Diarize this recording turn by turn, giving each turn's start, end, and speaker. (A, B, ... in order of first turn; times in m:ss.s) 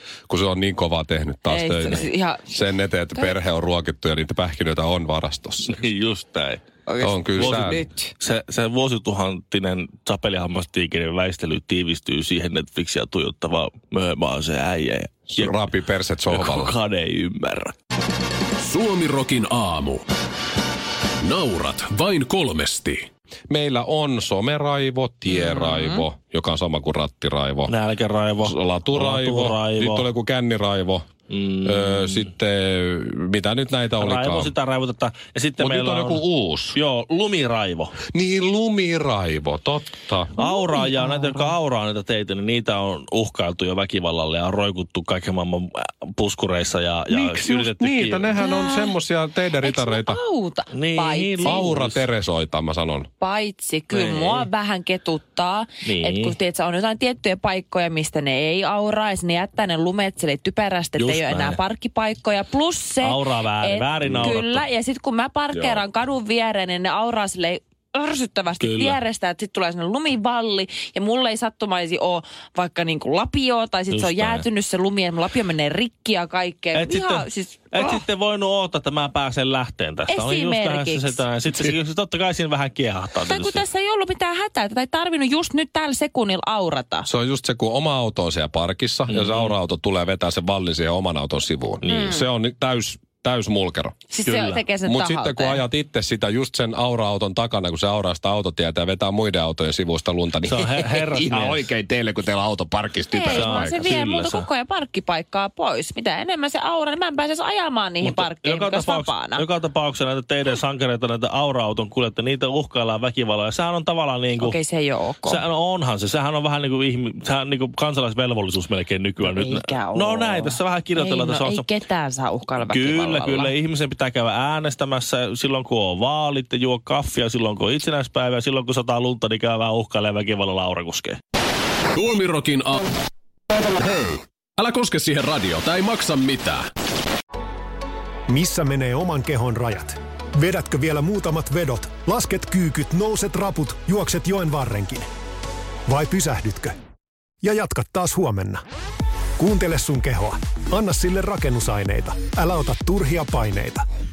0:00.3-0:05.8 A
0:01.5-0:03.4 B
0:05.7-0:06.6 C
0:06.8-0:08.1 B
0:07.0-0:07.8 A
0:07.4-0:15.6 C
0:15.3-0:16.7 A
0:16.3-0:17.7 C
0:18.6-0:20.0 D
0:21.2-0:23.0 D
0:23.5-0:27.7 A
0:25.3-0:26.0 B
0:27.7-0:30.1 C
0:28.4-0:31.1 A
0:31.3-0:32.3 C
0:31.6-0:34.5 A
0:34.0-0:36.2 C
0:35.6-0:36.8 A
0:36.7-0:38.0 C
0:38.1-0:40.3 A
0:40.4-0:48.5 C
0:40.4-0:41.5 B
0:47.1-0:50.2 A
0:48.4-0:49.0 B
0:49.6-0:51.8 B
0:50.7-0:52.0 C
0:51.4-0:53.1 A
0:53.2-1:18.0 B
0:53.9-0:54.5 C
0:55.8-0:56.4 C
1:01.0-1:01.6 C
1:03.0-1:04.6 C
1:05.5-1:05.8 A
1:08.6-1:09.0 C
1:13.9-1:14.4 C
1:16.7-1:23.6 C
1:20.1-1:21.2 B
1:23.2-1:27.1 B
1:27.1-1:43.9 A
1:29.1-1:29.5 C
1:31.8-1:32.2 C
1:31.9-1:32.2 B
1:34.1-1:35.6 B
1:40.4-1:41.7 C
1:43.1-1:49.4 B
1:43.3-1:44.4 C
1:48.0-1:54.6 C
1:54.4-1:55.4 B
1:55.2-2:01.7 C
1:59.2-2:03.5 B
2:02.6-2:11.2 C
2:11.9-2:12.9 D
2:13.8-2:16.7 D
2:18.3-2:25.1 E
2:25.9-2:26.8 E
2:27.4-2:28.6 E
2:29.4-2:33.8 E